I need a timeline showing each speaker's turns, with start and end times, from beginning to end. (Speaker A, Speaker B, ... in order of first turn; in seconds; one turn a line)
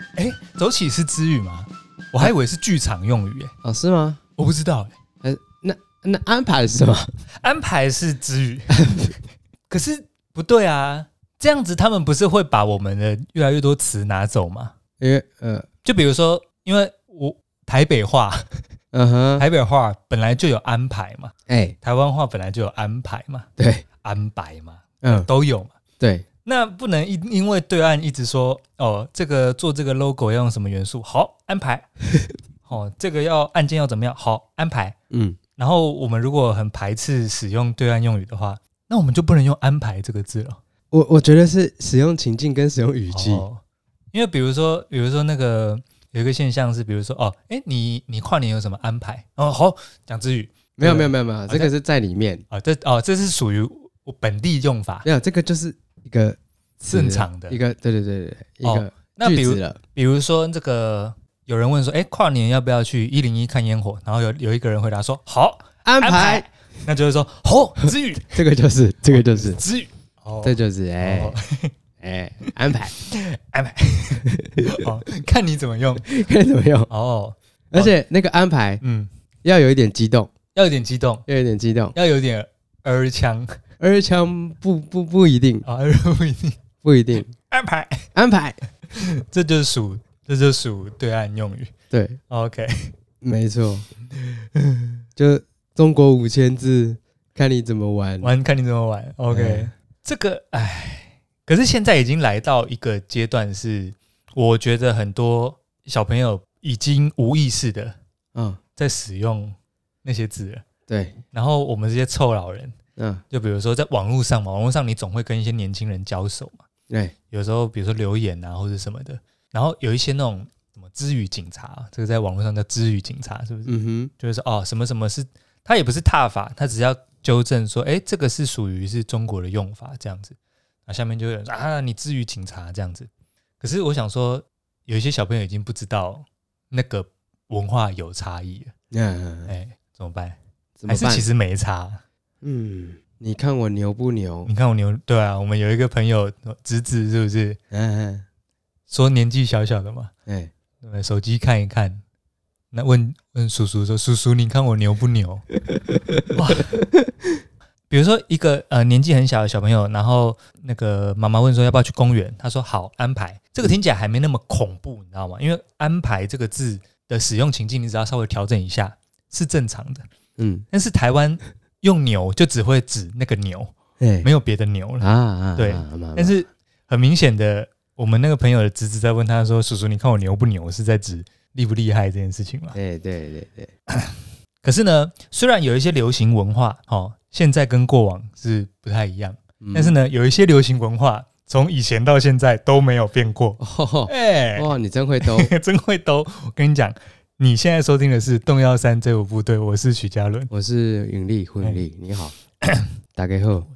Speaker A: 0.2-3.5
Speaker B: 3.6-4.2
Speaker A: 4.4-4.9
Speaker B: 5.2-7.1
Speaker A: 7.4-8.7
Speaker B: 8.7-9.2
Speaker A: 9.7-14.7
Speaker B: 15.0-15.7
Speaker A: 15.8-18.5
Speaker B: 18.9-19.5
Speaker A: 19.4-23.5
Speaker B: 21.5-21.8
Speaker B: 23.6-23.9
Speaker A: 24.0-25.7
Speaker B: 25.0-25.3
Speaker B: 26.0-26.3
Speaker A: 26.4-31.9
Speaker A: 32.7-35.0
Speaker B: 35.1-35.4
Speaker A: 35.6-40.6
Speaker B: 40.9-43.5
Speaker A: 43.1-43.6
Speaker A: 44.1-51.7
Speaker B: 50.8-52.5
Speaker A: 52.5-55.1
Speaker B: 55.0-59.8
Speaker A: 56.9-57.6
Speaker A: 58.6-68.4
Speaker B: 65.8-66.5
Speaker B: 68.3-69.6
Speaker A: 69.1-71.7
Speaker B: 70.4-71.4
Speaker B: 72.0-73.0
Speaker A: 72.9-76.1
Speaker B: 74.2-74.9
Speaker B: 76.0-76.9
Speaker A: 76.9-77.9
Speaker B: 77.7-78.8
Speaker A: 78.8-79.1
Speaker B: 79.4-80.3
Speaker A: 80.5-81.3
Speaker B: 81.3-81.9
Speaker A: 82.0-83.6
Speaker B: 83.8-85.7
Speaker A: 85.7-86.6
Speaker B: 86.8-87.3
Speaker A: 87.3-88.1
Speaker B: 88.2-88.6
Speaker A: 88.9-91.7
Speaker B: 91.9-92.2
Speaker A: 92.3-92.9
Speaker B: 93.2-93.9
Speaker A: 94.2-95.0
Speaker B: 95.2-98.3
Speaker A: 98.2-108.0
Speaker B: 99.3-99.7
Speaker B: 108.3-108.6
Speaker A: 108.8-110.6
Speaker B: 110.9-111.2
Speaker A: 111.3-112.8
Speaker B: 113.0-113.2
Speaker A: 113.3-116.6
Speaker A: 117.3-133.1
Speaker B: 123.7-124.1
Speaker A: 133.6-138.7
Speaker B: 138.9-139.5
Speaker A: 139.5-140.4
Speaker B: 140.8-141.3
Speaker A: 140.9-142.0
Speaker B: 142.4-144.5
Speaker A: 144.4-147.6
Speaker B: 147.7-148.2
Speaker A: 148.9-150.1
Speaker B: 150.3-150.5
Speaker A: 150.8-152.0
Speaker A: 152.7-155.4
Speaker B: 155.8-156.9
Speaker A: 156.3-156.7
Speaker A: 157.9-170.1
Speaker B: 170.4-170.7
Speaker A: 170.7-182.8
Speaker B: 174.0-174.3
Speaker B: 175.0-176.3
Speaker B: 182.8-183.7
Speaker A: 183.9-200.5
Speaker B: 189.6-190.0
Speaker B: 193.6-195.5
Speaker B: 200.5-202.3
Speaker A: 202.6-202.9
Speaker B: 203.2-203.7